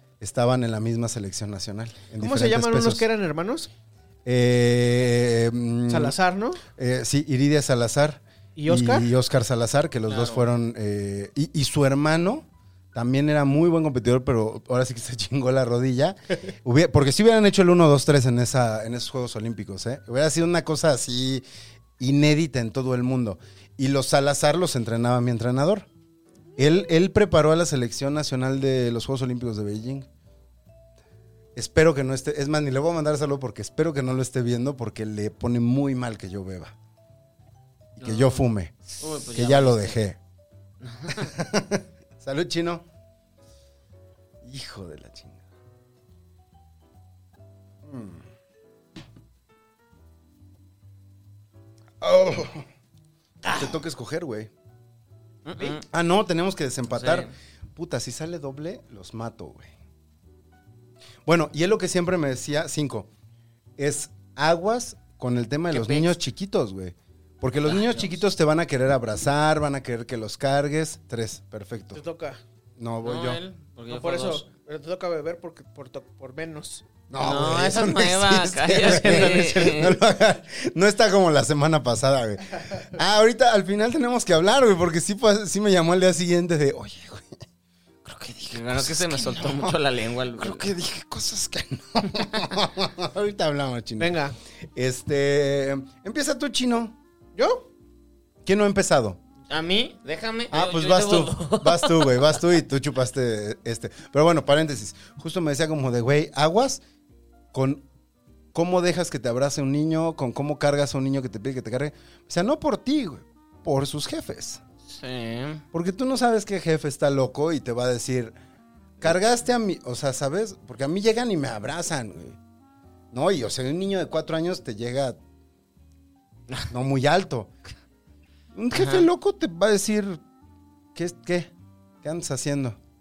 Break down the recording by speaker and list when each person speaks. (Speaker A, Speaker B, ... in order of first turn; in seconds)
Speaker A: 0.2-3.0, 4.2-6.2, 6.7-21.4, 22.0-25.9, 26.6-30.1, 31.6-36.7, 38.0-40.2, 41.1-42.9, 44.4-45.4, 47.8-48.2, 52.0-52.7, 53.5-54.5, 55.9-59.7, 61.2-63.1, 63.8-72.0, 72.8-73.4, 77.1-87.4, 88.0-89.8, 90.4-94.2, 94.8-97.0, 98.5-99.2, 100.5-106.8, 107.5-107.9, 108.5-114.6, 115.7-118.4, 119.0-122.4, 123.1-125.2, 126.7-127.5, 128.5-130.2, 130.9-131.5, 132.0-132.8
Speaker B: 2.2-3.7, 5.9-6.6, 8.6-9.1, 71.9-72.4, 73.9-76.8, 78.8-79.6, 94.0-94.4, 97.4-97.7
Speaker C: 10.1-10.4, 38.0-39.9, 40.8-41.3, 55.5-55.8, 56.9-57.3, 65.7-66.1, 67.7-68.1, 73.0-74.5, 77.2-80.0, 88.5-90.7, 99.5-102.4, 114.9-115.6, 128.7-129.1